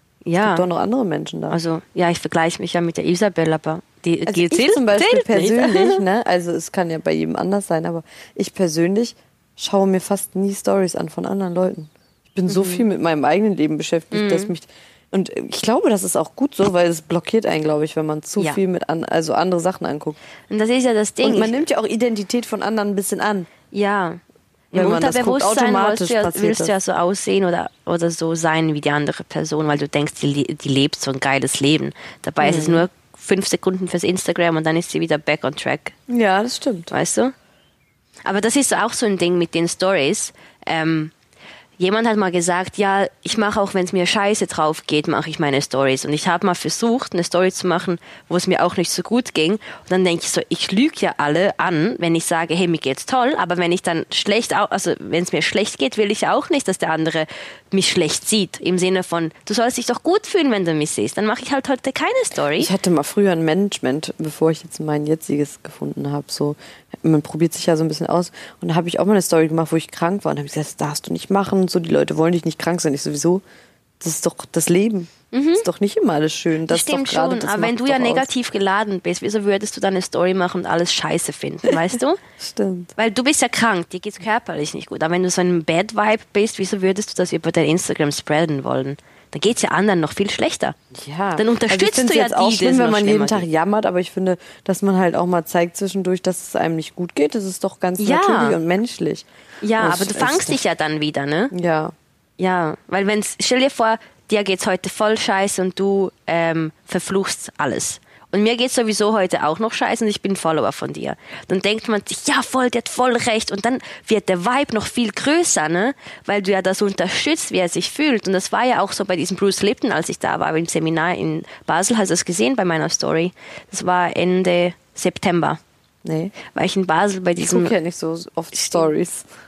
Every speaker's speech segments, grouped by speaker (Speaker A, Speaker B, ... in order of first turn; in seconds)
Speaker A: 0.2-0.7, 1.5-6.0, 12.5-12.9, 14.1-14.5, 20.5-21.6, 23.7-24.2, 24.7-36.0, 36.9-37.3, 38.2-41.1, 41.8-62.7, 75.3-75.7, 76.7-82.2, 83.0-90.8, 91.4-93.5, 98.0-98.6, 99.6-101.5, 102.4-125.6, 126.4-127.7
Speaker B: 0.4-1.6, 4.3-20.2, 21.2-23.5, 24.7-26.7, 32.4-32.9, 36.1-36.9, 62.6-73.4, 74.0-78.3, 82.4-82.9, 90.9-99.3, 99.8-100.6, 101.5-101.9, 126.0-126.3, 127.4-129.3